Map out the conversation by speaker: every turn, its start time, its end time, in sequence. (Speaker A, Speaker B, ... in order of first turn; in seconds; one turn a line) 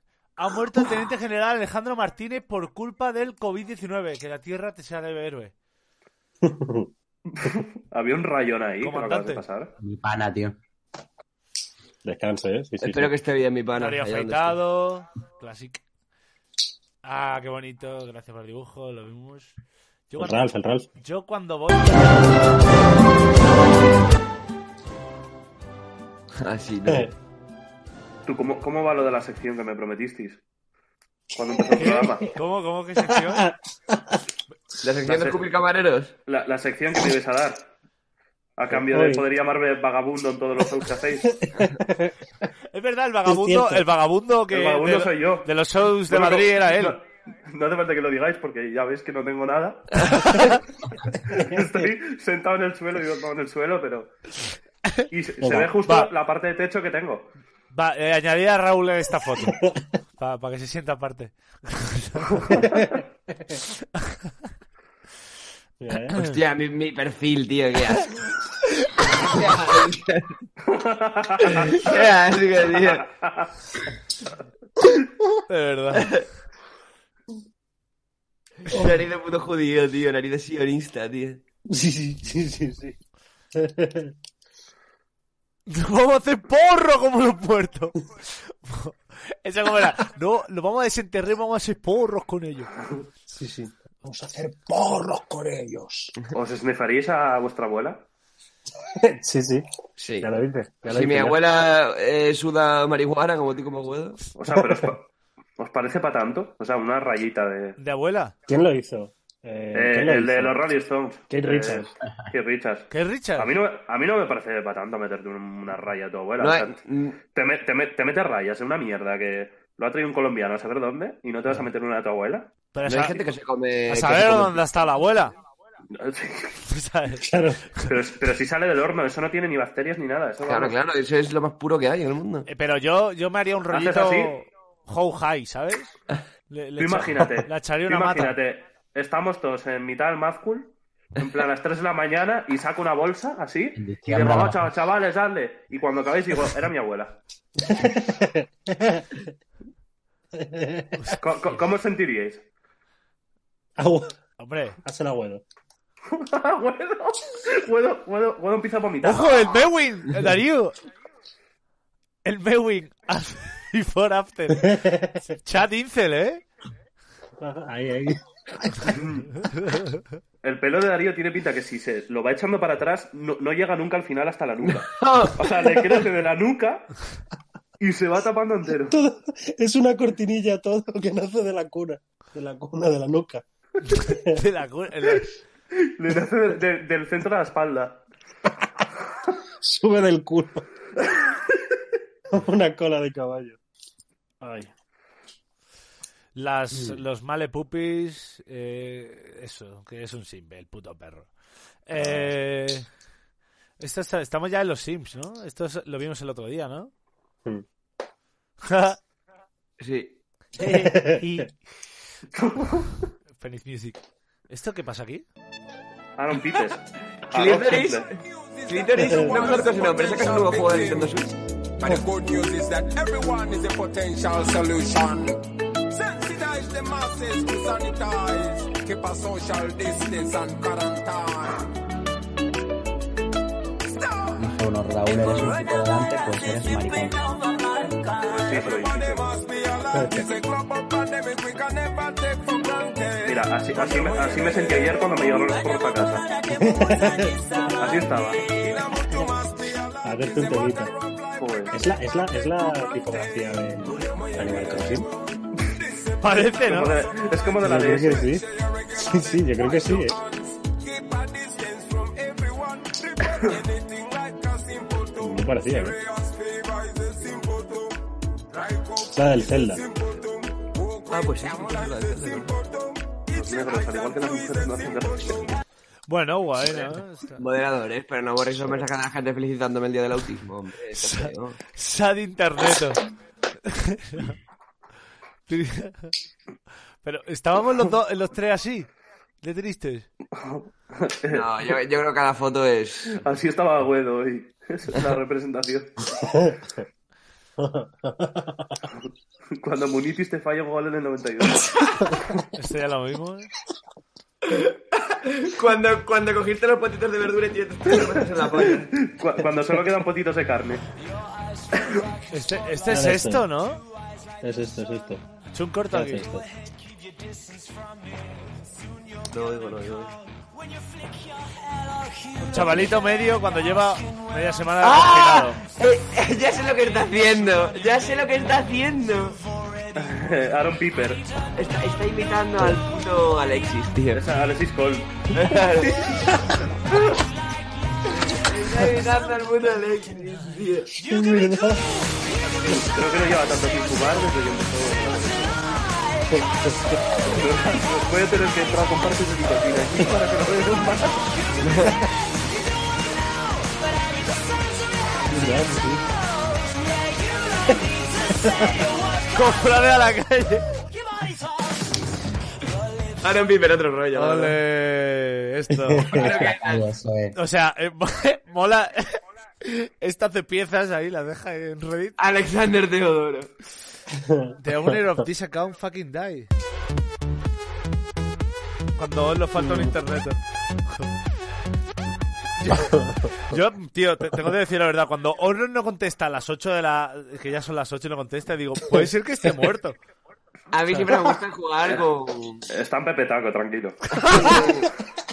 Speaker A: 0.4-5.5
Speaker B: 6.4-6.9
Speaker C: 7.3-9.7
Speaker A: 8.8-9.5
Speaker D: 9.8-10.6
Speaker B: 12.0-13.1
Speaker E: 12.8-14.6
Speaker A: 13.8-15.8
Speaker A: 17.0-19.6
Speaker A: 20.1-22.5
Speaker B: 20.2-20.9
Speaker E: 26.4-27.1
Speaker C: 28.3-30.4
Speaker C: 31.4-32.3
Speaker A: 31.8-33.5
Speaker B: 33.3-34.1
Speaker E: 34.8-36.1
Speaker C: 36.3-37.7
Speaker C: 38.6-41.3
Speaker B: 38.7-39.2
Speaker B: 41.6-42.1
Speaker A: 42.7-47.0
Speaker B: 43.3-43.8
Speaker C: 44.5-45.5
Speaker C: 46.1-50.1
Speaker A: 50.0-50.6
Speaker C: 51.3-54.1
Speaker C: 55.1-57.3
Speaker B: 55.4-55.7
Speaker A: 55.8-56.1
Speaker A: 57.7-59.6
Speaker A: 60.2-62.6
Speaker B: 65.8-66.2
Speaker E: 66.2-68.1
Speaker E: 69.1-70.3
Speaker C: 70.7-71.9
Speaker E: 71.4-73.1
Speaker C: 72.8-73.5
Speaker A: 75.5-76.1
Speaker E: 76.0-76.2
Speaker E: 78.7-81.4
Speaker B: 81.7-83.0
Speaker B: 83.7-84.1
Speaker A: 85.7-92.7
Speaker B: 93.3-96.1
Speaker C: 96.3-98.0
Speaker B: 99.0-99.7
Speaker E: 100.0-100.3
Speaker B: 100.2-101.4
Speaker E: 100.9-104.2
Speaker C: 104.4-105.0
Speaker B: 104.6-104.9
Speaker C: 105.6-107.8
Speaker A: 107.8-108.3
Speaker B: 108.5-110.6
Speaker C: 109.7-116.8
Speaker B: 111.3-112.0
Speaker A: 112.9-113.5
Speaker E: 116.4-117.2
Speaker C: 117.3-122.5
Speaker A: 122.7-123.2
Speaker E: 122.8-124.6
Speaker A: 123.9-125.3
Speaker C: 125.9-126.6
Speaker A: 126.7-127.3
Speaker B: 127.2-127.6
Speaker C: 127.8-130.8
Speaker E: 130.5-132.5
Speaker A: 132.5-136.0
Speaker C: 133.7-134.4
Speaker A: 136.5-138.3
Speaker C: 136.8-147.2
Speaker D: 143.8-144.7
Speaker B: 147.8-148.1
Speaker B: 150.6-150.8
Speaker C: 151.2-152.4
Speaker B: 153.8-154.1
Speaker A: 154.4-154.8
Speaker B: 154.8-155.4
Speaker C: 156.1-159.3
Speaker A: 159.0-160.8
Speaker A: 162.2-164.8
Speaker A: 165.4-166.4
Speaker B: 167.4-168.9
Speaker C: 168.9-169.3
Speaker A: 169.4-170.0
Speaker C: 170.4-176.9
Speaker E: 174.7-175.4
Speaker C: 177.8-179.0
Speaker B: 178.9-183.4
Speaker A: 183.8-185.3
Speaker C: 185.8-188.0
Speaker B: 189.6-190.7
Speaker B: 192.3-193.6
Speaker B: 194.4-194.7
Speaker A: 196.3-201.3
Speaker A: 201.9-202.8
Speaker B: 202.0-202.3
Speaker A: 203.8-206.9
Speaker A: 208.6-209.0
Speaker E: 209.8-210.2
Speaker A: 210.6-211.5
Speaker B: 210.8-211.2
Speaker C: 212.3-213.1
Speaker A: 213.4-215.3
Speaker C: 216.2-218.1
Speaker E: 217.3-218.1
Speaker F: 218.2-221.2
Speaker E: 218.7-221.9
Speaker B: 219.1-219.3
Speaker F: 221.8-231.7
Speaker D: 234.4-237.3
Speaker C: 238.3-239.3
Speaker F: 238.3-244.9
Speaker B: 240.0-240.2
Speaker C: 243.2-246.3
Speaker B: 246.5-247.4
Speaker C: 247.8-248.5
Speaker F: 248.5-251.5
Speaker B: 250.0-250.9
Speaker C: 251.4-251.8
Speaker B: 251.7-255.1
Speaker F: 253.9-255.0
Speaker F: 255.8-256.6
Speaker A: 256.2-257.0
Speaker C: 256.6-258.3
Speaker B: 257.6-258.4
Speaker F: 258.1-275.4
Speaker B: 259.0-260.2
Speaker B: 265.2-265.9
Speaker B: 269.1-269.8
Speaker E: 271.1-272.5
Speaker C: 273.3-275.6
Speaker A: 276.1-277.4
Speaker E: 276.7-281.6
Speaker A: 281.0-283.0
Speaker A: 283.7-284.4
Speaker A: 285.5-286.1
Speaker A: 287.0-288.9
Speaker A: 289.4-290.1
Speaker C: 290.4-291.8
Speaker E: 291.3-293.2
Speaker C: 293.1-295.9
Speaker B: 296.2-296.6
Speaker B: 297.6-298.5
Speaker C: 299.6-301.8
Speaker A: 302.6-303.5
Speaker E: 304.5-308.9
Speaker C: 308.9-310.8
Speaker A: 312.3-313.8
Speaker B: 312.9-313.4
Speaker B: 314.4-315.2
Speaker A: 315.5-316.3
Speaker B: 315.9-316.4
Speaker E: 319.3-320.1
Speaker A: 322.4-325.6
Speaker B: 322.6-322.9
Speaker E: 324.8-329.4
Speaker C: 329.9-331.3
Speaker E: 331.6-334.2
Speaker C: 334.1-335.3
Speaker E: 335.3-336.2
Speaker C: 336.9-337.2
Speaker E: 338.2-341.0
Speaker B: 341.0-341.9
Speaker C: 342.7-345.6
Speaker B: 346.3-347.4
Speaker C: 347.2-351.3
Speaker E: 351.7-351.9
Speaker B: 355.3-356.1
Speaker A: 359.3-360.7
Speaker E: 363.2-364.6
Speaker A: 364.1-366.2
Speaker B: 365.9-366.3
Speaker E: 366.1-366.9
Speaker D: 366.3-367.4
Speaker A: 367.4-372.2
Speaker E: 372.2-373.5
Speaker A: 374.6-376.5
Speaker A: 379.0-380.4
Speaker B: 379.6-379.9
Speaker A: 382.6-390.0
Speaker E: 390.7-392.7
Speaker C: 392.7-394.0
Speaker E: 394.1-394.9
Speaker A: 394.2-394.5